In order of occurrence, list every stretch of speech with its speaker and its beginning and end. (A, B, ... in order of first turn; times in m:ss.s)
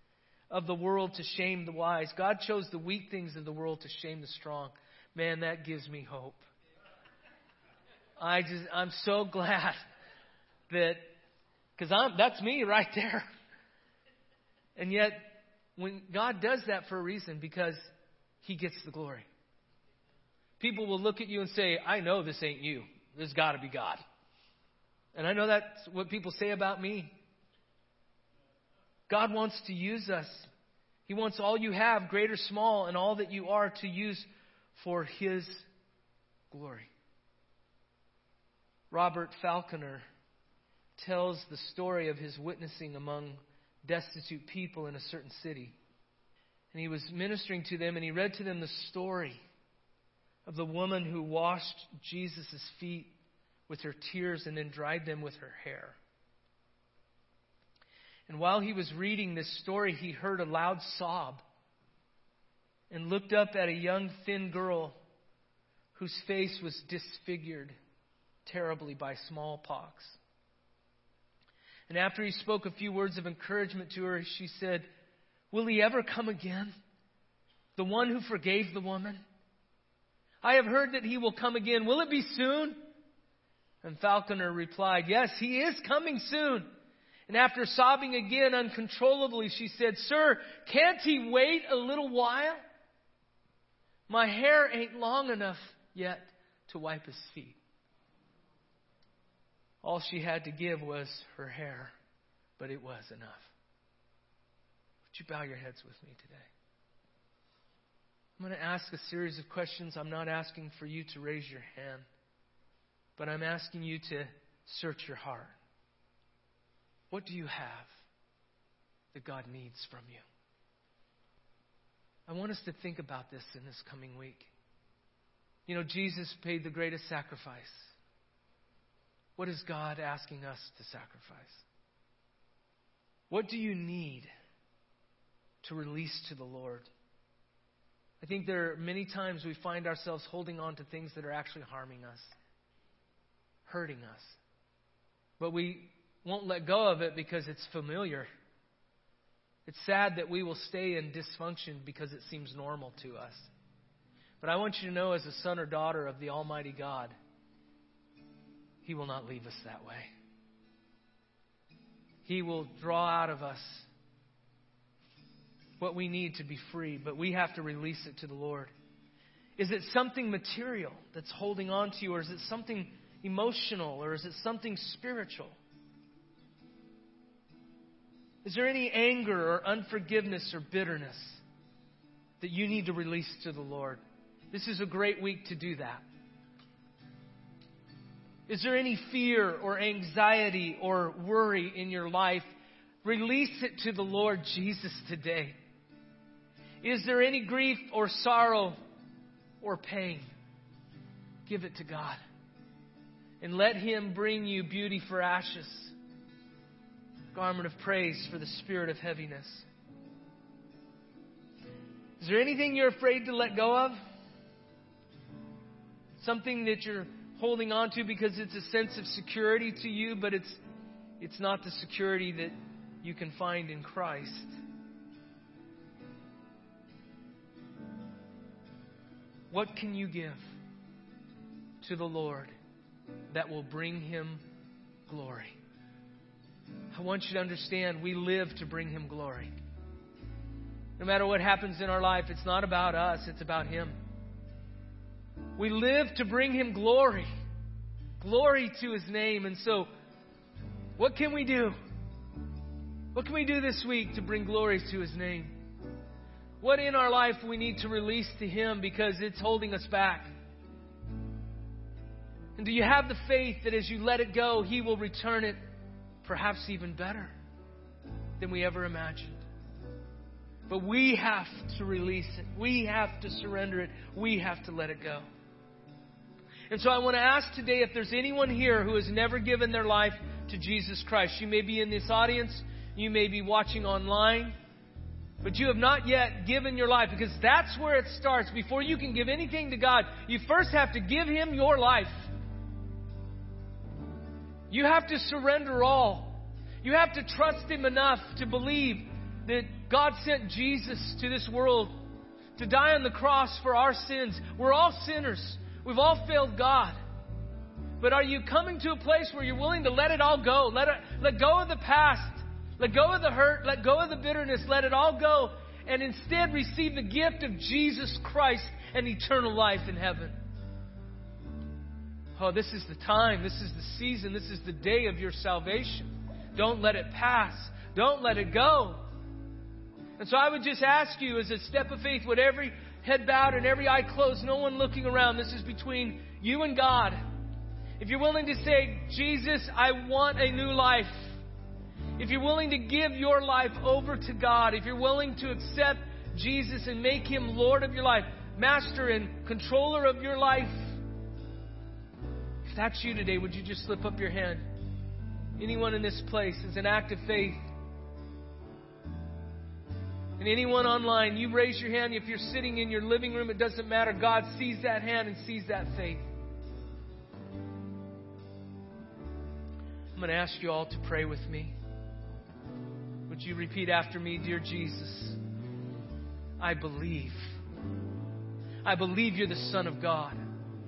0:00.5-0:06.5 A
0:08.2-0:09.8 A
0:10.7-0:11.1 A
0:11.8-0:13.3 A
0:14.8-0:17.8 A
0:18.4-0:19.3 A
0:20.6-0:24.0 A
0:25.1-0:27.2 A
0:29.1-0:30.5 A
0:31.1-0:35.7 A
0:36.5-0:36.9 A
0:38.9-0:40.0 A
0:41.0-0:45.8 A
0:46.7-0:49.4 A
0:50.5-0:53.1 A
0:53.7-0:56.0 A
0:58.3-1:01.4 A
1:02.9-1:05.0 A
1:06.0-1:07.8 A
1:08.4-1:10.2 A
1:11.9-1:14.9 A
1:15.5-1:16.7 A
1:17.8-1:19.2 A
1:20.4-1:22.8 A
1:23.8-1:26.7 A
1:27.3-1:32.6 A
1:34.1-1:37.6 A
1:39.8-1:41.9 A
1:42.6-1:43.5 A
1:45.1-1:46.5 A
1:48.4-1:52.1 A
1:53.2-1:55.6 A
1:57.1-1:57.9 A
1:59.1-2:00.2 A
2:02.3-2:04.5 A
2:05.7-2:08.0 A
2:09.4-2:11.6 A
2:13.3-2:14.3 A
2:15.6-2:16.9 A
2:18.2-2:22.4 A
2:23.6-2:24.4 A
2:25.4-2:28.3 A
2:29.7-2:33.5 A
2:34.4-2:37.2 A
2:38.8-2:40.1 A
2:42.2-2:43.9 A
2:45.8-2:48.7 A
2:49.6-2:55.6 A
2:58.4-3:01.4 A
3:02.4-3:06.0 A
3:08.5-3:12.5 A
3:13.0-3:15.6 A
3:16.8-3:18.8 A
3:19.6-3:20.3 A
3:21.5-3:22.2 A
3:23.4-3:26.0 A
3:27.3-3:29.7 A
3:32.2-3:34.0 A
3:36.2-3:40.6 A
3:41.2-3:44.6 A
3:49.5-3:50.4 A
3:51.8-3:52.5 A
3:53.3-3:54.4 A
3:55.1-3:55.6 A
3:56.9-3:59.5 A
4:01.0-4:04.0 A
4:05.6-4:07.3 A
4:08.2-4:09.9 A
4:11.0-4:11.8 A
4:13.1-4:15.6 A
4:16.6-4:20.3 A
4:22.6-4:25.6 A
4:26.2-4:27.3 A
4:28.4-4:29.4 A
4:30.7-4:35.3 A
4:36.7-4:44.5 A
4:45.4-4:52.3 A
4:54.7-5:02.0 A
5:02.6-5:07.0 A
5:08.0-5:20.4 A
5:22.4-5:29.0 A
5:30.2-5:37.2 A
5:38.0-5:41.4 A
5:42.2-5:51.0 A
5:52.7-5:54.7 A
5:55.6-5:57.6 A
6:00.4-6:06.3 A
6:10.2-6:11.7 A
6:13.3-6:15.4 A
6:16.6-6:17.5 A
6:18.8-6:20.4 A